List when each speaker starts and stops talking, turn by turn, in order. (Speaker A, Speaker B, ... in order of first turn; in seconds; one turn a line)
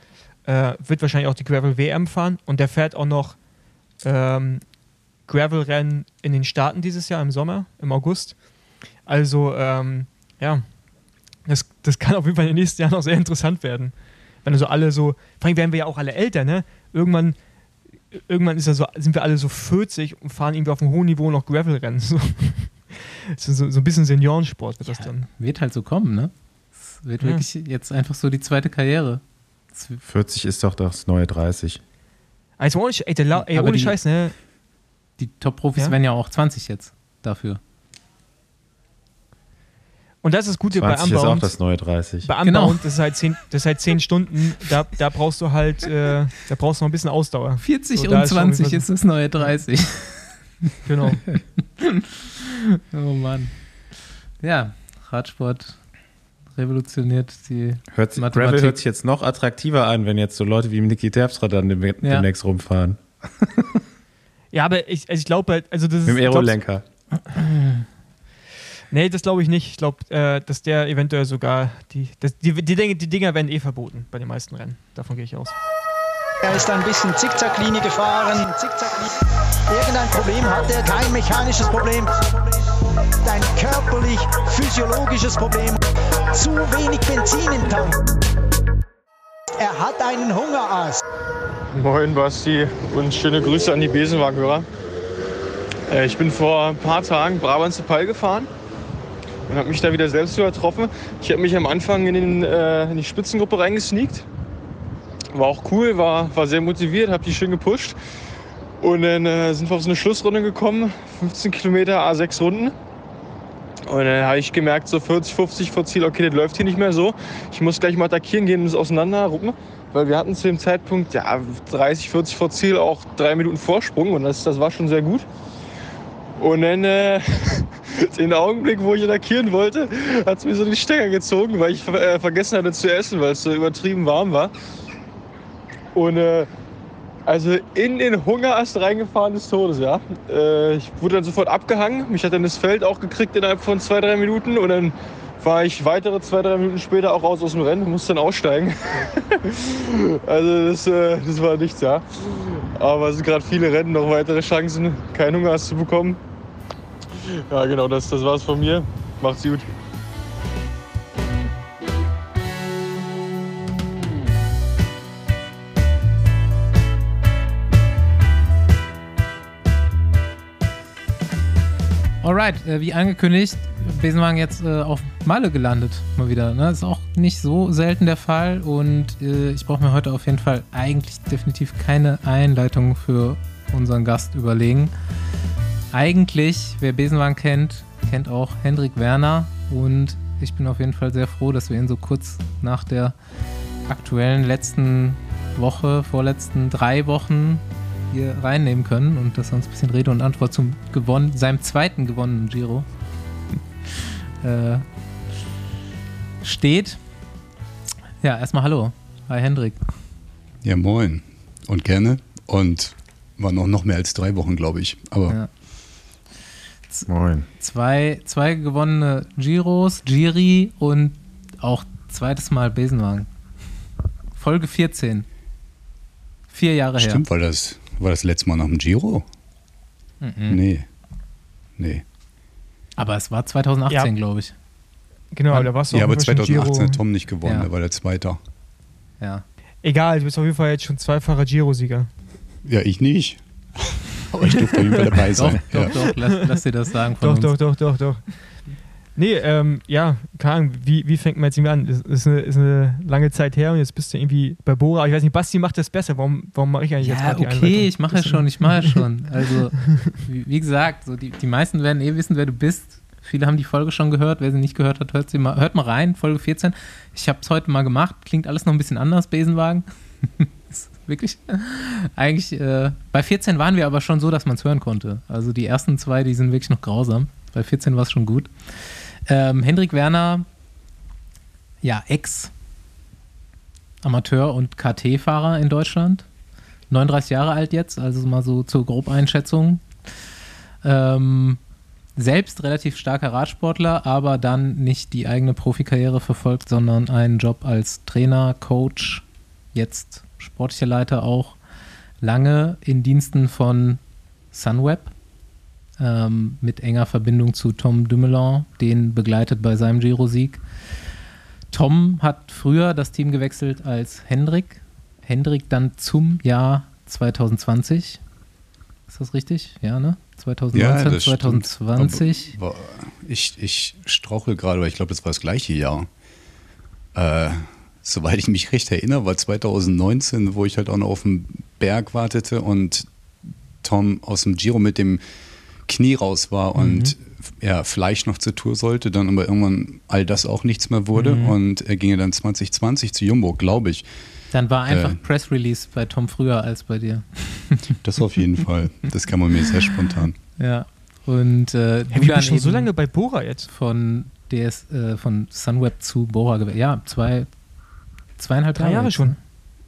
Speaker A: 0.4-3.4
Speaker A: 4.0-4.6
Speaker A: 5.3-8.4
Speaker A: 9.1-10.6
Speaker A: 11.4-17.4
Speaker A: 18.1-25.3
Speaker B: 24.8-30.0
Speaker A: 27.2-27.4
Speaker C: 30.0-31.8
Speaker A: 32.6-34.3
Speaker B: 33.3-34.0
Speaker B: 35.2-37.6
Speaker A: 40.2-41.5
Speaker C: 40.7-42.3
Speaker A: 42.2-48.9
Speaker B: 42.4-42.8
Speaker B: 47.6-53.5
Speaker A: 50.8-51.2
Speaker B: 54.4-55.8
Speaker B: 56.5-58.8
Speaker C: 57.9-63.8
Speaker B: 62.0-62.3
Speaker A: 64.5-66.6
Speaker C: 66.0-66.8
Speaker B: 67.4-67.8
Speaker A: 68.9-75.6
Speaker D: 76.4-79.2
Speaker D: 79.7-82.3
Speaker D: 83.2-85.8
Speaker D: 86.3-88.0
Speaker D: 89.6-91.0
Speaker E: 91.7-94.7
Speaker E: 95.9-98.5
Speaker E: 99.5-104.2
Speaker E: 105.3-108.0
Speaker E: 108.8-112.7
Speaker E: 113.9-125.2
Speaker E: 126.4-134.5
Speaker E: 135.9-136.5
Speaker E: 137.2-152.0
Speaker E: 152.8-156.2
Speaker E: 157.5-159.7
Speaker B: 172.2-184.9
Speaker B: 185.9-193.2
Speaker B: 193.9-202.9
Speaker B: 203.9-204.8
Speaker B: 206.4-207.0
Speaker B: 208.2-209.8
Speaker F: 210.6-215.3
Speaker B: 216.9-223.3
Speaker C: 217.1-217.5
Speaker B: 224.3-225.3
Speaker B: 226.5-227.2
Speaker F: 227.0-229.2
Speaker B: 230.2-230.6
Speaker F: 230.5-230.8
Speaker F: 231.8-232.0
Speaker B: 233.0-234.5
Speaker A: 235.3-237.0
Speaker F: 235.9-238.4
Speaker B: 239.2-239.4
Speaker A: 239.8-242.1
Speaker F: 242.7-245.9
Speaker A: 244.7-245.2
Speaker B: 245.3-247.6
Speaker A: 245.8-246.6
Speaker A: 247.2-248.3
Speaker A: 249.2-259.0
Speaker B: 257.0-280.4
Speaker B: 281.8-282.5
Speaker B: 284.0-286.3
Speaker B: 286.9-289.9
Speaker B: 290.8-291.6
Speaker B: 292.1-301.6
Speaker B: 302.2-304.0
Speaker B: 304.5-305.1
Speaker B: 306.0-310.6
Speaker B: 311.7-318.2
Speaker B: 319.1-322.5
Speaker F: 320.7-326.1
Speaker F: 327.1-333.1
Speaker F: 333.8-335.2
Speaker F: 335.9-344.0
Speaker B: 336.7-337.1
Speaker B: 341.1-341.6
Speaker B: 344.5-347.9
Speaker F: 344.9-345.2
Speaker F: 348.0-350.4
Speaker B: 350.6-352.9
Speaker A: 352.1-353.7
Speaker B: 353.7-357.5
Speaker B: 358.4-359.4
Speaker A: 358.7-359.4